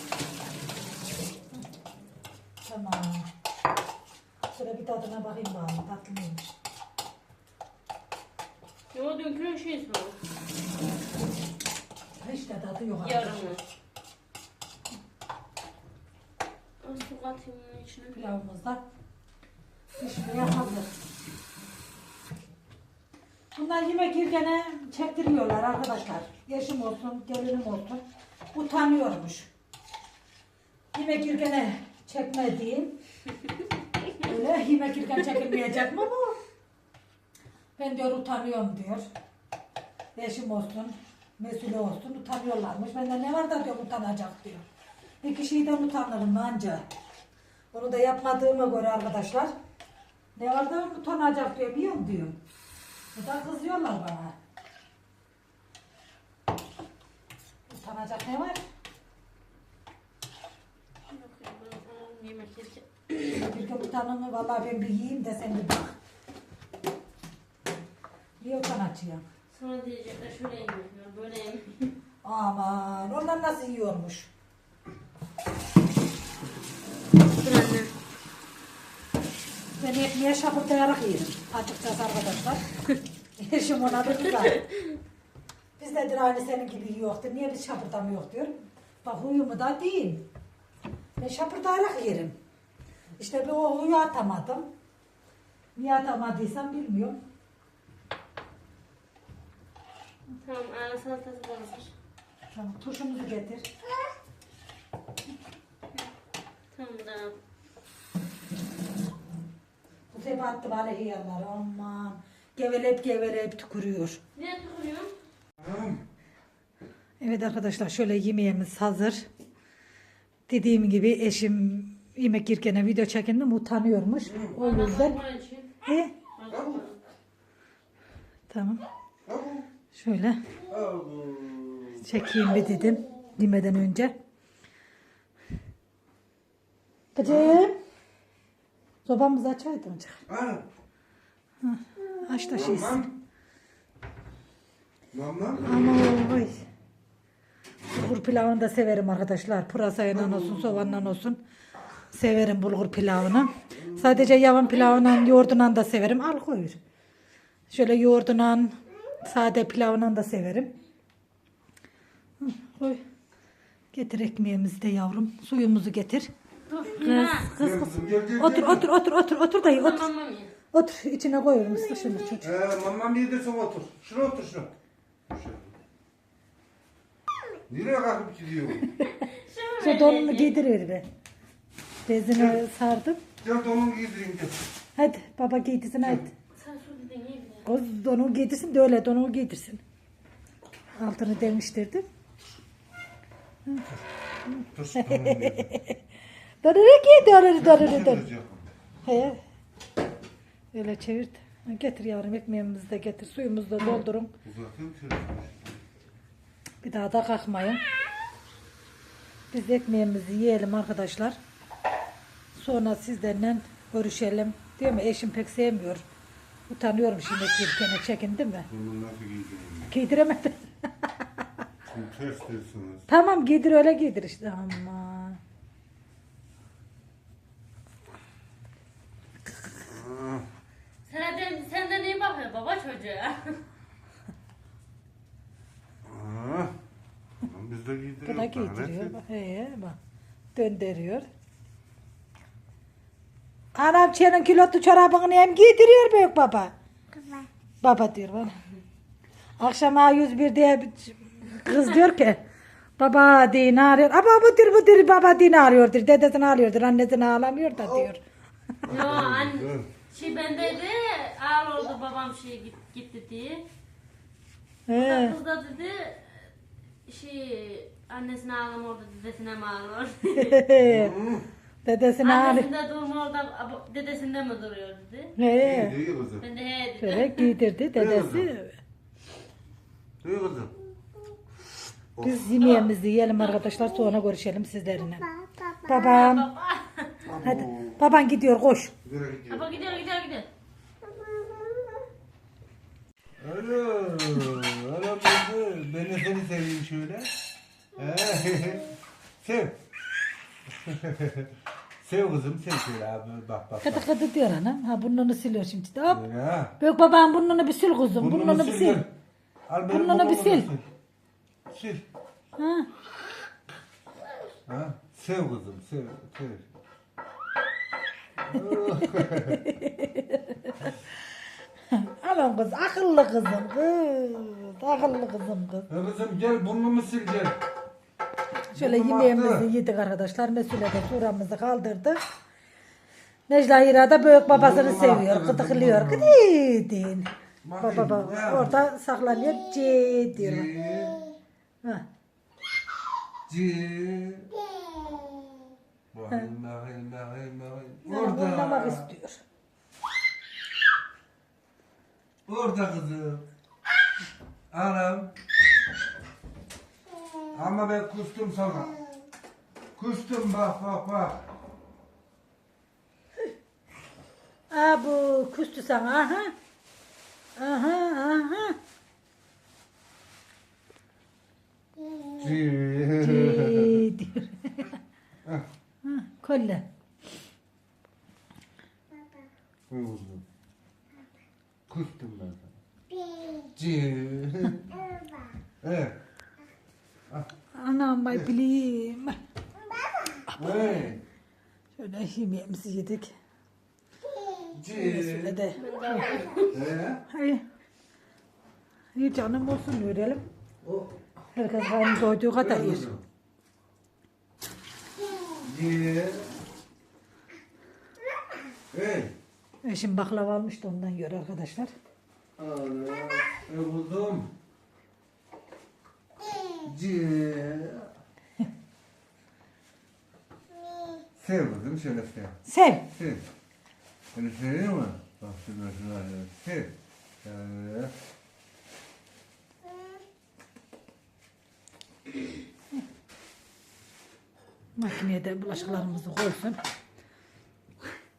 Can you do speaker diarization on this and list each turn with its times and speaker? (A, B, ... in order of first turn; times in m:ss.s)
0:02.6-0:03.3 A
0:04.5-0:06.6 A
0:08.9-0:10.2 B
0:12.2-0:13.6 A
0:13.0-0:13.6 B
0:16.8-0:18.1 B
0:18.1-0:18.8 A
0:19.9-0:20.9 A
0:23.5-0:28.0 A
0:28.5-0:29.5 A
0:30.9-0:33.0 A
0:34.2-0:36.4 A
0:37.8-0:39.1 A
0:40.2-0:44.6 A
0:45.2-0:46.8 A
0:47.7-0:49.5 A
0:50.4-0:52.4 A
0:53.1-0:54.4 A
0:57.7-0:58.6 A
1:01.0-1:03.2 B
1:03.2-1:06.0 A
1:08.4-1:09.2 A
1:09.5-1:11.9 B
1:12.2-1:14.3 A
1:17.3-1:17.9 B
1:19.8-1:22.6 A
1:23.4-1:24.6 A
1:24.0-1:25.0 B
1:25.8-1:30.2 A
1:31.2-1:32.4 A
1:33.2-1:34.7 A
1:35.8-1:37.2 A
1:40.4-1:41.9 B
1:42.5-1:43.7 A
1:46.7-1:47.3 B
1:50.1-1:54.2 A
1:54.4-1:55.1 B
1:55.6-1:56.0 C
1:57.2-1:59.2 A
2:00.5-2:05.2 A
2:04.2-2:04.5 C
2:04.5-2:05.7 B
2:05.8-2:06.1 A
2:06.3-2:07.0 B
2:06.5-2:06.8 C
2:08.5-2:08.8 A
2:09.2-2:09.7 C
2:09.9-2:10.4 A
2:10.7-2:12.1 C
2:12.0-2:14.1 A
2:17.1-2:17.7 A
2:17.2-2:17.6 C
2:19.0-2:20.2 A
2:20.3-2:20.6 C
2:21.6-2:23.1 A
2:22.5-2:23.1 C
2:25.1-2:25.8 C
2:25.6-2:26.6 A
2:27.9-2:31.4 A
2:30.1-2:31.1 C
2:32.1-2:36.8 A
2:33.7-2:34.4 C
2:37.7-2:40.7 A
2:42.4-2:43.0 A
2:43.9-2:46.3 A
2:46.7-2:47.5 B
2:47.0-2:50.1 A
2:47.5-2:48.8 C
2:49.6-2:50.5 B
2:50.7-2:52.5 A
2:52.4-2:54.7 C
2:55.3-2:55.8 C
2:57.7-2:58.9 C
2:59.2-3:00.6 B
2:59.8-3:01.0 A
3:02.0-3:03.2 A
3:02.3-3:02.6 C
3:03.4-3:04.6 C
3:05.0-3:06.3 A
3:06.5-3:07.6 B
3:07.6-3:09.8 A
3:11.0-3:12.0 A
3:14.5-3:16.0 A
3:14.7-3:15.8 C
3:16.6-3:18.2 A
3:17.6-3:18.7 C
3:19.0-3:19.4 A
3:20.7-3:24.3 A
3:24.4-3:25.8 C
3:26.8-3:27.8 A
3:29.5-3:31.4 A
3:32.5-3:36.0 A
3:36.7-3:38.7 A
3:38.7-3:39.9 C
3:39.9-3:41.4 A
3:41.9-3:43.0 C
3:43.1-3:45.4 A
3:49.8-3:50.4 C
3:51.0-3:53.6 B
3:56.0-3:56.7 C
3:57.4-3:59.1 C
3:58.2-4:00.0 A
4:00.5-4:01.3 A
4:03.7-4:06.7 A
4:07.8-4:08.5 A
4:09.6-4:12.4 A
4:13.0-4:18.2 A
4:18.8-4:19.9 C
4:18.8-4:23.6 B
4:24.9-4:25.4 A
4:24.9-4:26.5 B
4:27.0-4:30.6 B
4:30.3-4:31.1 A
4:30.8-4:31.5 C
4:31.8-4:32.7 A
4:32.2-4:35.3 B
4:35.4-4:36.0 A
4:35.6-4:36.4 C
4:36.4-4:37.5 B
4:37.0-4:38.8 A
4:37.9-4:38.5 C
4:40.2-4:40.7 C
4:42.2-4:42.4 C
4:42.2-4:45.2 A
4:45.8-4:46.5 A
4:45.9-4:47.2 B
4:47.2-4:48.0 C
4:47.4-4:48.9 A
4:49.0-4:49.7 C
4:49.5-4:50.5 B
4:53.4-4:57.3 C
4:57.9-4:59.8 C
5:00.7-5:04.0 C
5:03.8-5:06.2 A
5:06.1-5:06.7 C
5:06.8-5:09.0 A
5:08.2-5:09.1 C
5:09.7-5:10.8 C
5:09.9-5:10.7 A
5:11.7-5:12.0 C
5:12.6-5:12.9 A
5:14.7-5:16.7 C
5:18.4-5:19.6 C
5:18.7-5:21.0 A
5:21.9-5:25.9 A
5:25.9-5:27.6 C
5:28.7-5:32.2 A
5:28.8-5:29.7 C
5:33.5-5:40.7 A
5:34.5-5:36.4 C
5:37.6-5:38.9 C
5:40.3-5:41.2 C
5:43.5-5:44.5 C
5:46.1-5:49.1 C
5:48.0-5:49.4 A
5:52.5-5:53.4 C
5:54.7-5:55.3 C
5:57.5-5:58.9 C
6:00.0-6:01.5 C
6:04.7-6:06.5 A
6:07.6-6:08.8 A
6:12.4-6:14.0 C
6:13.2-6:15.0 A
6:16.0-6:16.8 A
6:19.9-6:20.4 C
6:21.9-6:22.7 C
6:23.7-6:25.0 C
6:25.8-6:26.2 C
6:27.7-6:29.4 A
6:30.5-6:31.2 C
6:32.0-6:33.3 A
6:34.7-6:35.6 C
6:34.9-6:36.3 A
6:35.8-6:36.8 B
6:36.7-6:37.2 C
6:37.3-6:37.6 A
6:39.2-6:40.4 A
6:40.8-6:41.2 C
6:41.5-6:43.0 A
6:42.6-6:43.2 C
6:45.6-6:46.5 C
6:48.9-6:49.3 C
6:49.8-6:51.9 A
6:52.6-6:54.5 C
6:56.7-6:58.1 C
7:01.4-7:02.6 C
7:02.6-7:03.0 A
7:03.1-7:03.4 C
7:04.3-7:08.1 C
7:15.0-7:16.8 A